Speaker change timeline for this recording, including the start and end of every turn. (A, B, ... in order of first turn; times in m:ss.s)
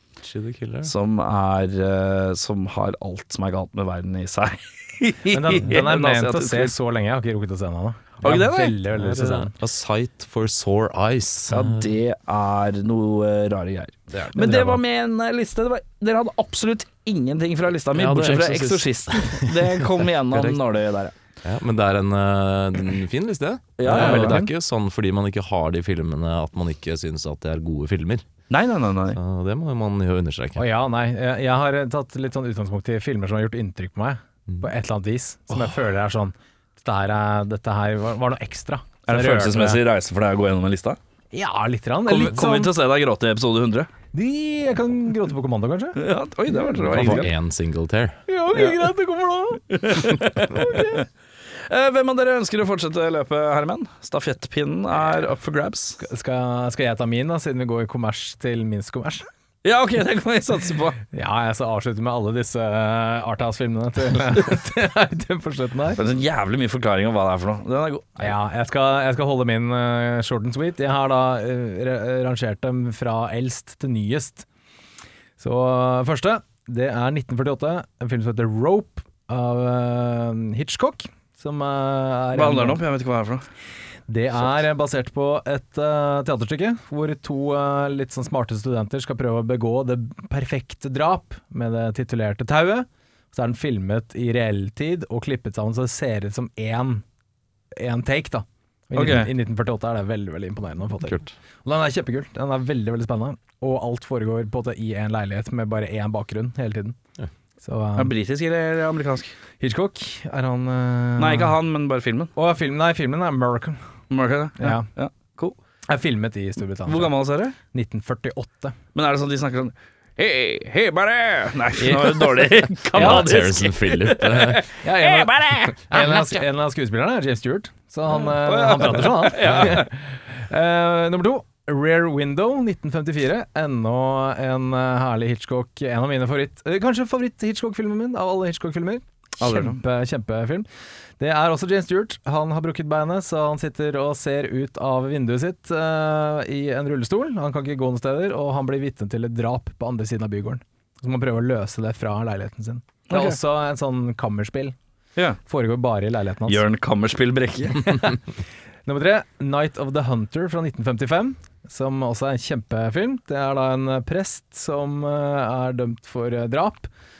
0:00.2-0:00.9 A
0:00.8-0:06.7 B
0:05.3-0:09.5 C
0:08.2-0:08.8 B
0:08.9-0:11.9 A
0:11.5-0:21.1 B
0:14.1-0:14.5 A
0:14.4-0:14.8 C
0:17.9-0:19.7 A
0:20.3-0:20.6 A
0:21.4-0:28.2 A
0:23.8-0:24.4 B
0:23.8-0:24.5 C
0:28.5-0:29.2 B
0:29.1-0:30.6 A
0:30.6-0:39.8 C
0:39.0-0:41.0 B
0:41.3-0:42.7 C
0:42.1-0:43.9 B
0:44.1-0:46.0 C
0:46.0-0:47.3 B
0:46.9-0:48.2 A
0:48.3-0:51.0 C
0:48.5-0:48.8 B
0:49.7-0:51.0 B
0:51.6-0:56.0 B
0:56.0-0:59.2 C
0:59.6-1:01.0 B
1:01.1-1:06.0 C
1:05.9-1:08.3 B
1:08.2-1:14.4 C
1:15.4-1:22.8 C
1:22.3-1:23.4 B
1:24.1-1:37.0 C
1:37.7-1:47.0 C
1:38.9-1:39.3 B
1:41.0-1:41.3 A
1:47.6-1:48.1 C
1:48.0-1:49.3 B
1:49.6-1:51.6 C
1:51.2-1:52.3 B
1:52.4-1:53.8 C
1:54.1-1:55.6 B
1:54.6-1:54.9 C
1:55.9-1:57.1 C
1:56.8-1:57.6 B
1:57.7-1:58.8 C
1:58.9-2:06.2 B
2:02.9-2:03.5 C
2:02.9-2:04.6 A
2:04.6-2:20.7 C
2:08.1-2:09.9 B
2:19.4-2:19.8 B
2:21.2-2:34.8 C
2:33.1-2:33.4 B
2:35.4-2:36.6 C
2:36.5-2:38.1 B
2:38.8-2:46.9 C